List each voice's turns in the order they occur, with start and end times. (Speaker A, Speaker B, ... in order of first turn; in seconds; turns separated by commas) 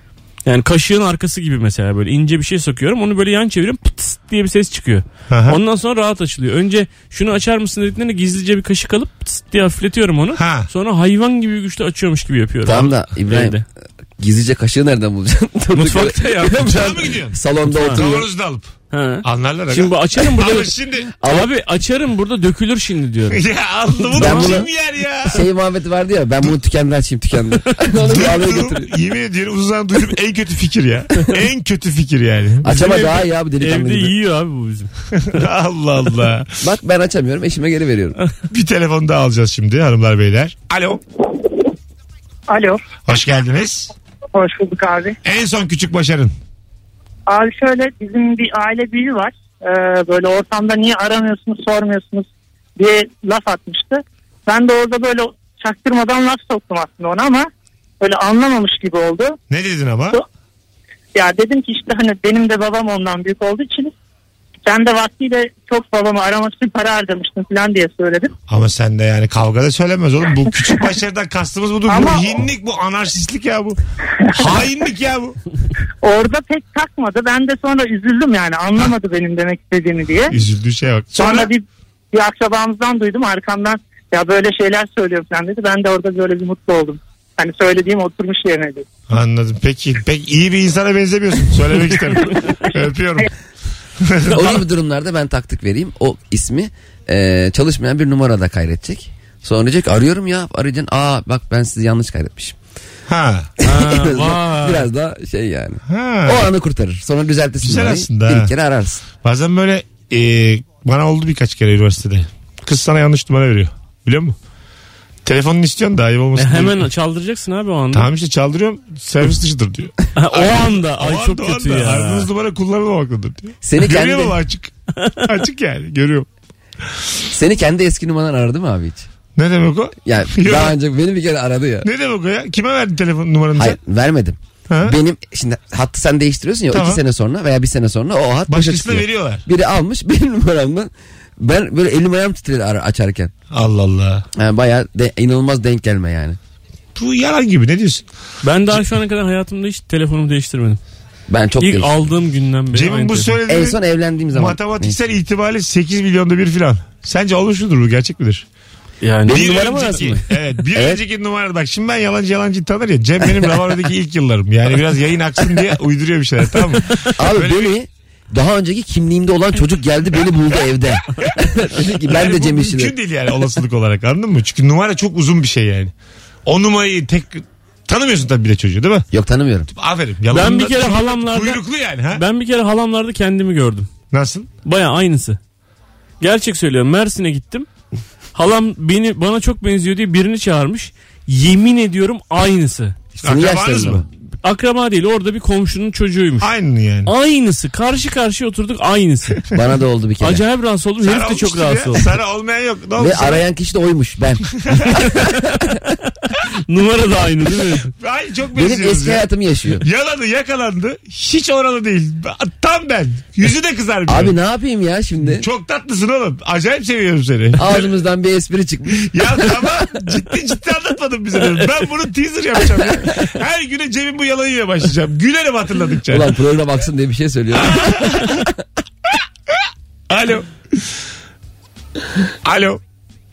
Speaker A: 0.4-13.6, Speaker B: 5.3-5.6, Speaker B: 10.3-10.7, Speaker C: 12.6-13.6, Speaker C: 14.2-18.3, Speaker A: 15.7-17.0, Speaker B: 16.6-17.4, Speaker A: 17.7-18.0, Speaker B: 17.9-18.7, Speaker A: 18.9-23.4, Speaker B: 19.2-21.1, Speaker C: 21.2-21.5, Speaker B: 23.3-25.5, Speaker A: 24.1-24.6, Speaker C: 24.1-24.7, Speaker C: 25.2-28.9, Speaker B: 28.0-32.7, Speaker C: 32.6-34.1, Speaker A: 32.7-35.4, Speaker B: 35.1-36.6, Speaker C: 36.6-38.2, Speaker B: 38.5-41.0, Speaker D: 42.5-42.8, Speaker B: 43.0-43.9, Speaker D: 44.3-45.2, Speaker B: 45.2-46.3, Speaker D: 47.3-57.5, Speaker D: 58.0-59.4, Speaker B: 59.5-60.2, Speaker D: 61.1-63.9, Speaker D: 64.7-68.3, Speaker B: 68.5-73.8, Speaker D: 71.9-72.3, Speaker B: 74.3-75.4, Speaker D: 76.0-80.3, Speaker B: 80.3-81.5, Speaker D: 81.1-88.8, Speaker B: 89.1-93.3, Speaker B: 94.0-94.6, Speaker C: 94.3-102.6, Speaker B: 103.1-103.5, Speaker C: 103.6-109.0, Speaker A: 103.6-104.9, Speaker B: 105.9-106.5, Speaker B: 107.6-108.5, Speaker B: 109.2-114.3, Speaker B: 115.2-116.9, Speaker A: 116.3-118.1, Speaker B: 117.9-126.3, Speaker A: 120.1-122.3, Speaker C: 123.6-124.4, Speaker C: 127.3-129.1, Speaker B: 129.3-130.8, Speaker C: 130.0-131.9, Speaker B: 131.8-133.8, Speaker C: 133.6-143.3, Speaker B: 134.7-135.0, Speaker B: 136.7-137.0, Speaker B: 138.5-139.4, Speaker B: 143.5-144.2, Speaker C: 144.3-146.4, Speaker B: 146.9-148.1, Speaker A: 148.4-150.8, Speaker C: 151.3-151.9, Speaker A: 151.6-153.4, Speaker B: 152.7-153.8, Speaker C: 153.5-154.9, Speaker B: 154.3-158.4, Speaker A: 159.0-160.1, Speaker C: 159.3-160.2, Speaker B: 159.3-167.7, Speaker C: 160.7-161.0, Speaker C: 167.2-172.9, Speaker B: 171.9-175.9, Speaker B: 176.4-179.1, Speaker C: 179.1-179.7, Speaker B: 179.7-182.2, Speaker A: 180.3-183.9, Speaker B: 184.1-184.5, Speaker A: 184.6-185.4, Speaker A: 186.2-187.7, Speaker A: 188.3-192.9, Speaker C: 193.2-194.1, Speaker B: 193.2-194.0, Speaker A: 194.4-196.5, Speaker B: 196.4-197.1, Speaker A: 197.1-199.4, Speaker C: 199.5-200.4, Speaker A: 200.2-202.1, Speaker B: 201.0-203.4, Speaker C: 203.0-205.4, Speaker B: 204.5-205.1, Speaker A: 205.0-207.9, Speaker B: 208.0-209.2, Speaker C: 208.6-209.8, Speaker B: 209.8-214.3, Speaker C: 214.1-215.4, Speaker B: 215.2-217.9, Speaker C: 217.6-219.2, Speaker B: 218.9-226.4, Speaker C: 226.1-228.4, Speaker B: 227.5-228.5, Speaker B: 230.1-230.9, Speaker B: 232.4-232.8